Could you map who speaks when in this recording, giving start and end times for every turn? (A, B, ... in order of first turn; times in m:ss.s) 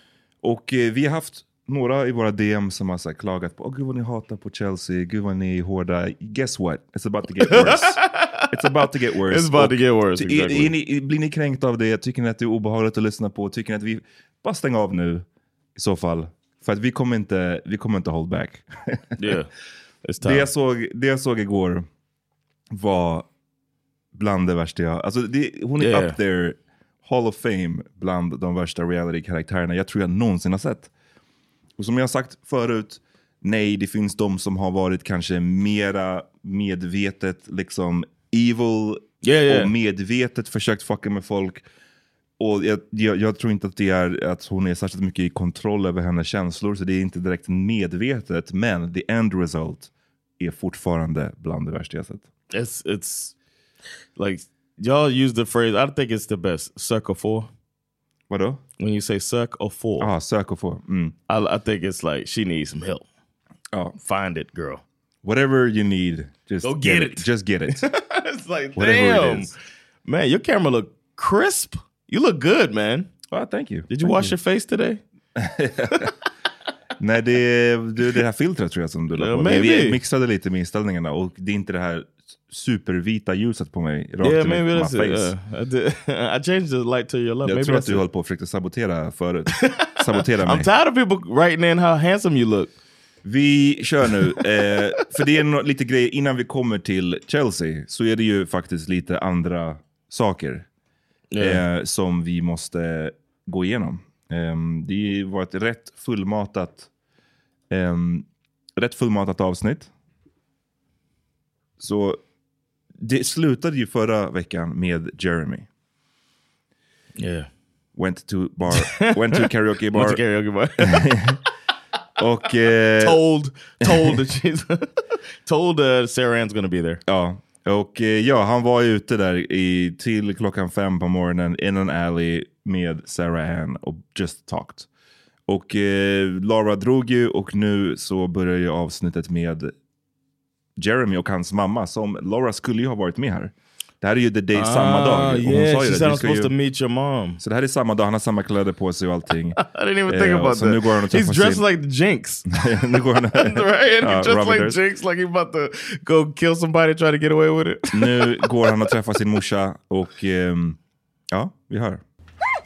0:00.4-0:19.4 A
0:07.4-0:10.7 B
0:19.2-0:19.5 B
0:20.0-0:20.5 B
0:20.2-0:21.9 A
0:22.7-0:23.3 A
0:24.1-0:30.9 A
0:25.8-0:26.2 B
0:31.8-0:41.6 A
0:39.2-0:39.7 B
0:42.4-0:52.2 A
0:52.5-0:53.3 B
0:54.2-0:57.5 B
0:58.3-0:58.6 A
0:58.8-1:00.1 B
1:00.0-1:01.2 A
1:01.3-1:03.0 B
1:04.0-1:04.8 B
1:05.2-1:07.8 A
1:06.6-1:13.1 B
1:08.8-1:09.5 A
1:13.3-1:14.3 A
1:13.9-1:15.0 B
1:15.4-1:16.1 A
1:17.0-1:25.3 A
1:19.2-1:20.0 B
1:24.2-1:28.0 B
1:27.4-1:30.7 A
1:30.4-1:32.7 B
1:33.2-1:40.7 A
1:41.3-1:41.6 B
1:41.4-1:46.9 A
1:47.7-1:49.9 A
1:51.8-1:52.2 A
1:53.0-1:55.7 A
1:57.2-1:57.5 B
1:57.9-2:00.2 A
1:58.7-2:01.1 B
2:00.8-2:01.4 A
2:02.2-2:03.2 A
2:03.0-2:04.9 B
2:03.8-2:04.2 A
2:05.4-2:07.0 B
2:07.0-2:14.9 A
2:15.5-2:19.7 A
2:20.8-2:26.5 A
2:24.5-2:27.4 B
2:27.4-2:31.6 A
2:29.6-2:38.4 B
2:32.5-2:34.8 A
2:37.9-2:40.8 A
2:41.3-2:42.0 A